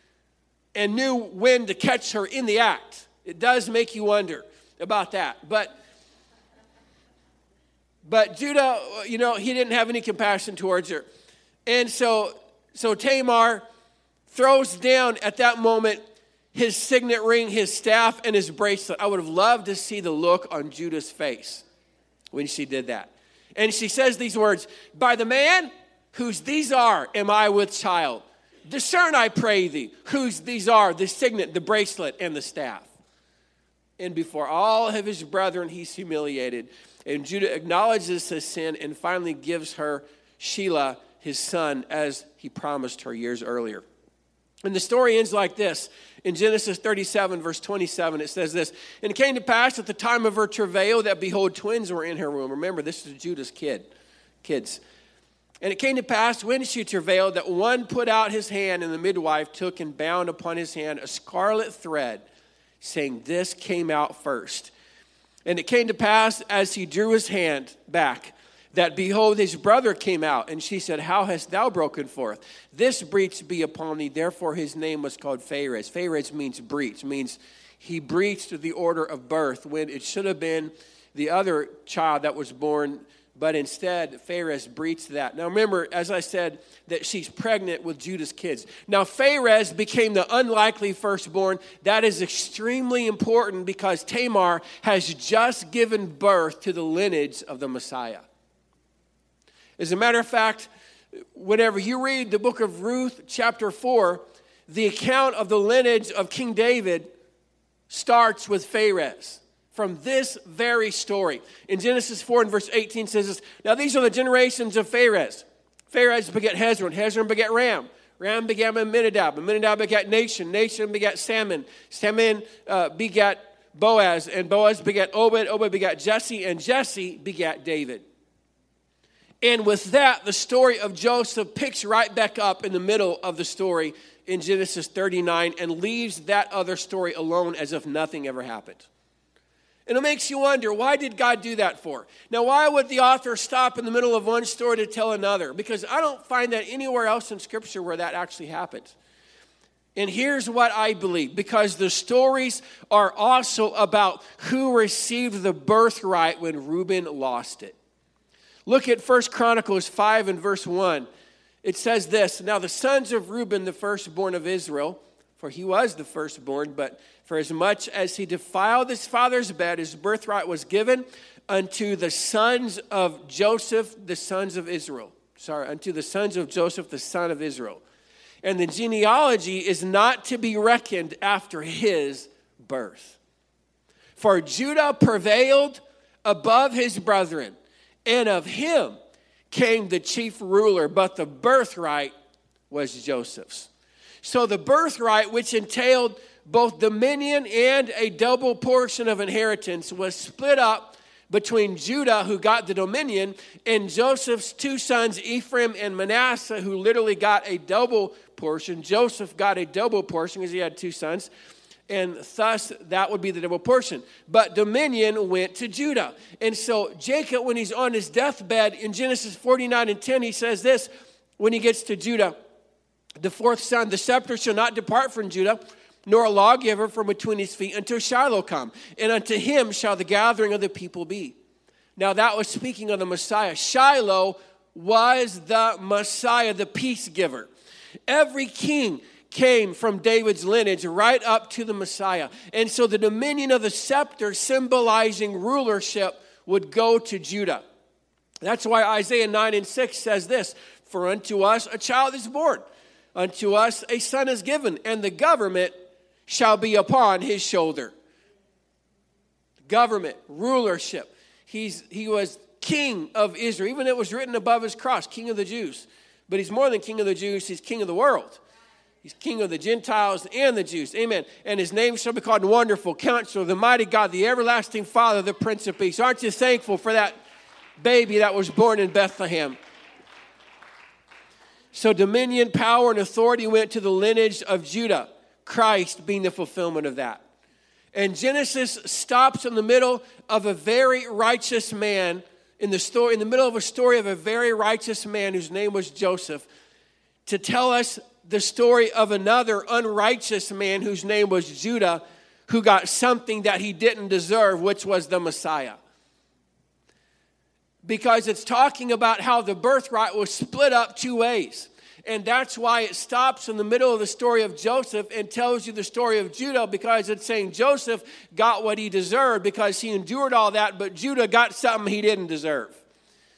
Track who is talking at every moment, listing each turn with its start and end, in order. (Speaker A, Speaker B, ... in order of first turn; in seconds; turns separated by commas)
Speaker A: 0.7-5.7, Speaker A: 8.0-11.1, Speaker A: 11.7-13.6, Speaker A: 14.3-16.0, Speaker A: 16.5-21.6, Speaker A: 22.3-32.9, Speaker A: 34.0-43.8, Speaker A: 44.6-53.9, Speaker A: 54.4-54.8, Speaker A: 55.6-62.2, Speaker A: 62.8-64.7, Speaker A: 65.5-98.2, Speaker A: 99.8-100.7, Speaker A: 101.3-107.1, Speaker A: 107.9-128.0, Speaker A: 129.4-138.9, Speaker A: 139.9-148.9, Speaker A: 149.9-157.7, Speaker A: 158.7-161.1, Speaker A: 161.6-177.8, Speaker A: 178.4-183.2, Speaker A: 184.2-187.5, Speaker A: 188.1-189.0, Speaker A: 189.5-192.1, Speaker A: 192.7-193.7, Speaker A: 194.2-211.3, Speaker A: 211.9-222.3, Speaker A: 223.2-231.3, Speaker A: 231.9-237.5, Speaker A: 238.1-247.6, Speaker A: 248.4-255.7, Speaker A: 256.3-257.9, Speaker A: 259.6-268.4, Speaker A: 269.0-277.1, Speaker A: 277.8-279.6, Speaker A: 281.7-287.2, Speaker A: 287.9-296.5, Speaker A: 297.2-305.8, Speaker A: 307.8-322.8